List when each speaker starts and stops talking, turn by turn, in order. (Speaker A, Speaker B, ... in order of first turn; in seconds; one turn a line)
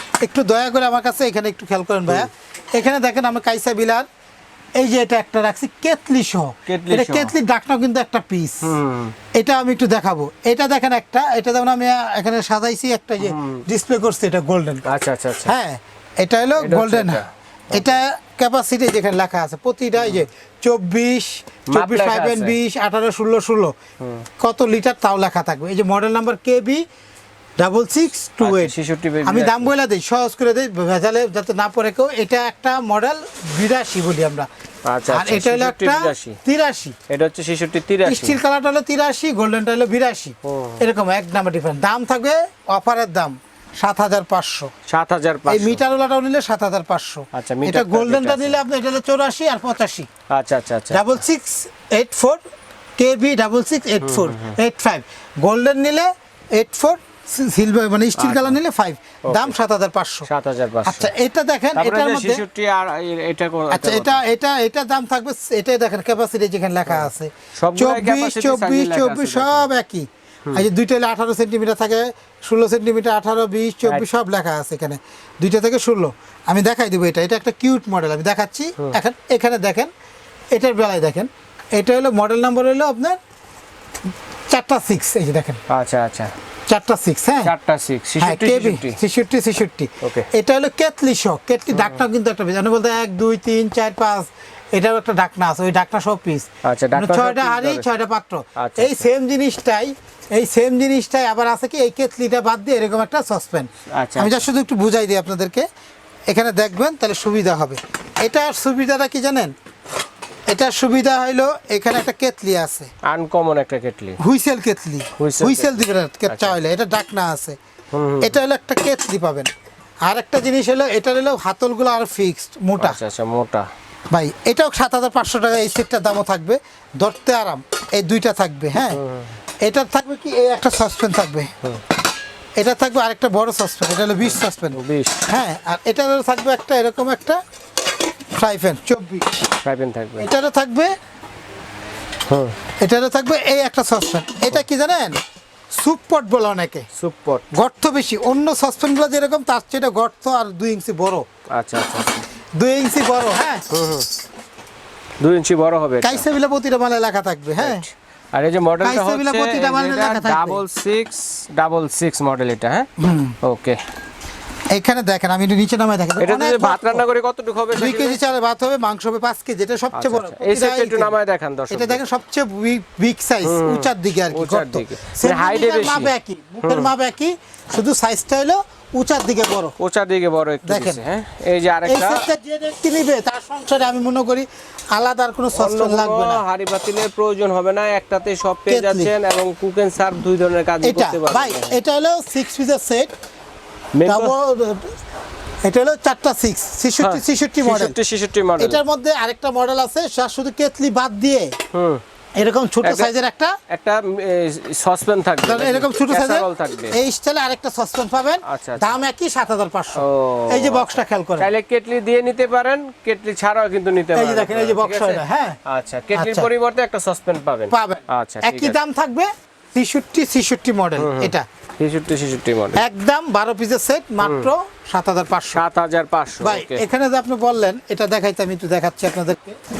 Speaker A: 0.2-4.0
Speaker A: 4.8-8.7
Speaker B: 6.7-7.3
Speaker B: 8.6-9.1
Speaker A: 9.3-14.8
Speaker B: 13.2-13.6
Speaker B: 14.8-15.5
Speaker A: 15.4-17.2
Speaker B: 16.6-18.0
Speaker A: 17.7-23.7
Speaker B: 20.0-20.2
Speaker B: 21.7-22.5
Speaker A: 24.4-26.8
Speaker A: 27.6-34.5
Speaker B: 28.4-29.7
Speaker B: 34.9-36.4
Speaker A: 35.1-37.0
Speaker B: 37.1-38.4
Speaker A: 38.0-44.7
Speaker B: 40.4-40.8
Speaker B: 44.9-45.8
Speaker A: 45.5-50.1
Speaker B: 47.3-48.6
Speaker B: 50.3-51.1
Speaker A: 50.9-52.4
Speaker A: 53.0-60.3
Speaker B: 54.0-54.5
Speaker B: 58.1-58.6
Speaker B: 59.3-59.5
Speaker B: 60.3-61.1
Speaker A: 60.9-62.4
Speaker B: 61.8-64.2
Speaker A: 63.7-79.9
Speaker B: 66.9-69.7
Speaker A: 80.5-83.2
Speaker A: 84.5-85.6
Speaker B: 85.7-86.3
Speaker A: 86.7-87.5
Speaker B: 87.4-89.0
Speaker A: 88.2-105.6
Speaker B: 90.0-90.3
Speaker B: 91.7-92.0
Speaker B: 96.6-97.8
Speaker B: 98.6-99.0
Speaker B: 103.9-104.5
Speaker A: 106.3-109.5
Speaker A: 110.5-112.9
Speaker B: 113.0-114.2
Speaker A: 114.2-117.5
Speaker B: 115.2-116.6
Speaker B: 117.9-118.3
Speaker A: 118.2-119.5
Speaker A: 120.1-123.0
Speaker B: 122.8-123.7
Speaker A: 124.1-129.0
Speaker B: 128.9-129.3
Speaker A: 129.6-131.5
Speaker A: 132.6-137.4
Speaker B: 134.2-135.2
Speaker A: 138.3-139.5
Speaker B: 139.6-140.3
Speaker A: 140.2-140.9
Speaker B: 142.3-142.5
Speaker A: 142.8-145.2
Speaker A: 145.7-146.8
Speaker B: 146.9-147.4
Speaker A: 147.5-151.2
Speaker B: 151.5-152.2
Speaker A: 152.6-154.0
Speaker B: 153.7-154.1
Speaker B: 155.2-156.2
Speaker A: 156.0-157.8
Speaker B: 157.6-162.9
Speaker A: 158.8-160.6
Speaker A: 163.0-163.3
Speaker B: 163.4-163.8
Speaker A: 164.7-167.0
Speaker B: 166.2-168.2
Speaker A: 167.7-171.1
Speaker B: 169.9-172.0
Speaker A: 171.7-179.7
Speaker B: 173.4-176.1
Speaker B: 176.6-176.9
Speaker B: 179.8-182.2
Speaker A: 180.6-181.0
Speaker A: 181.8-186.4
Speaker B: 185.5-191.8
Speaker A: 188.7-189.1
Speaker A: 190.8-193.1
Speaker B: 193.9-194.3
Speaker A: 194.0-194.9
Speaker A: 195.6-197.9
Speaker B: 197.0-198.8
Speaker A: 198.6-201.5
Speaker B: 201.7-202.0
Speaker A: 202.4-203.5
Speaker B: 202.8-203.1
Speaker B: 203.7-206.9
Speaker A: 205.4-211.5
Speaker B: 208.4-208.9
Speaker B: 210.0-218.8
Speaker A: 214.1-215.6
Speaker A: 216.1-216.5
Speaker A: 217.7-221.4
Speaker B: 221.0-222.8
Speaker A: 222.8-225.6
Speaker B: 224.2-224.5
Speaker B: 225.5-226.8
Speaker A: 226.4-229.6